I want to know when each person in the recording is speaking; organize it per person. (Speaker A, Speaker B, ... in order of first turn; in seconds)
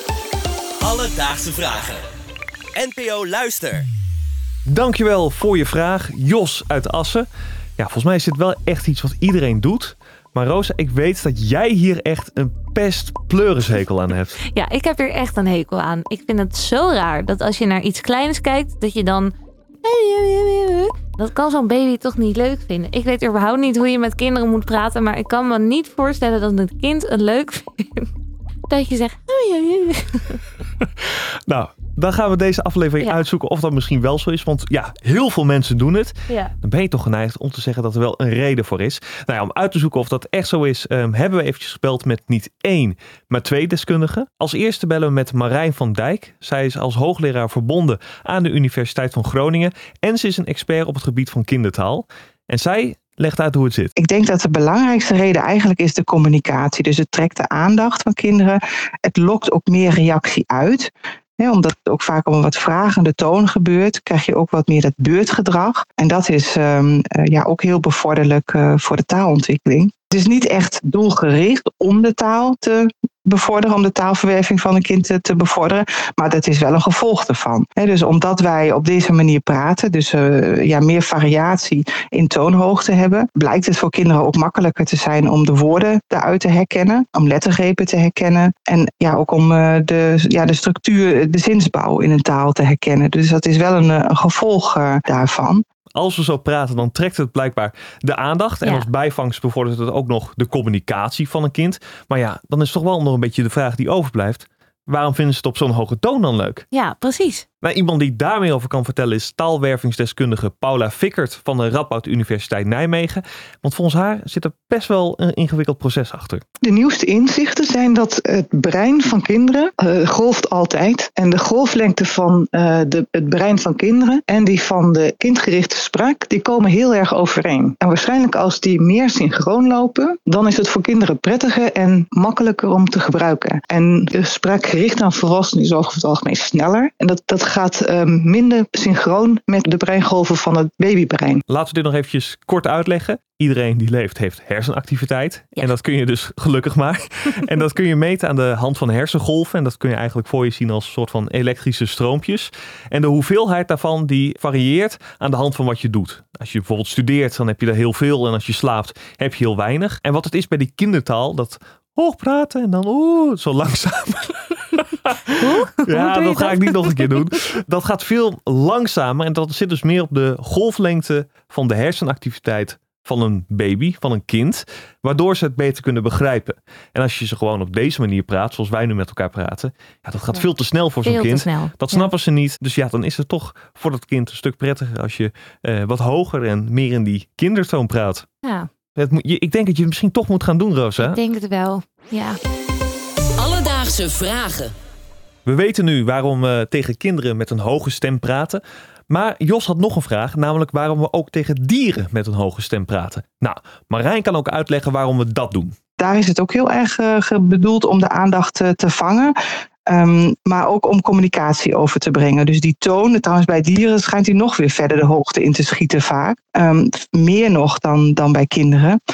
Speaker A: 0.8-2.0, 2.8-3.9
Speaker B: 4.7-7.3, 7.8-14.4, 31.0-53.9, 96.0-106.7, 107.6-116.4, 141.5-165.2, 165.8-188.3, 188.9-191.2, 195.5-205.8
Speaker C: 14.4-28.1, 28.7-30.4, 106.7-107.5, 165.4-167.1, 181.1-182.1, 188.4-188.7, 191.0-192.4
Speaker D: 54.0-95.6, 206.0-209.3, 209.9-219.0
Speaker E: 116.7-141.4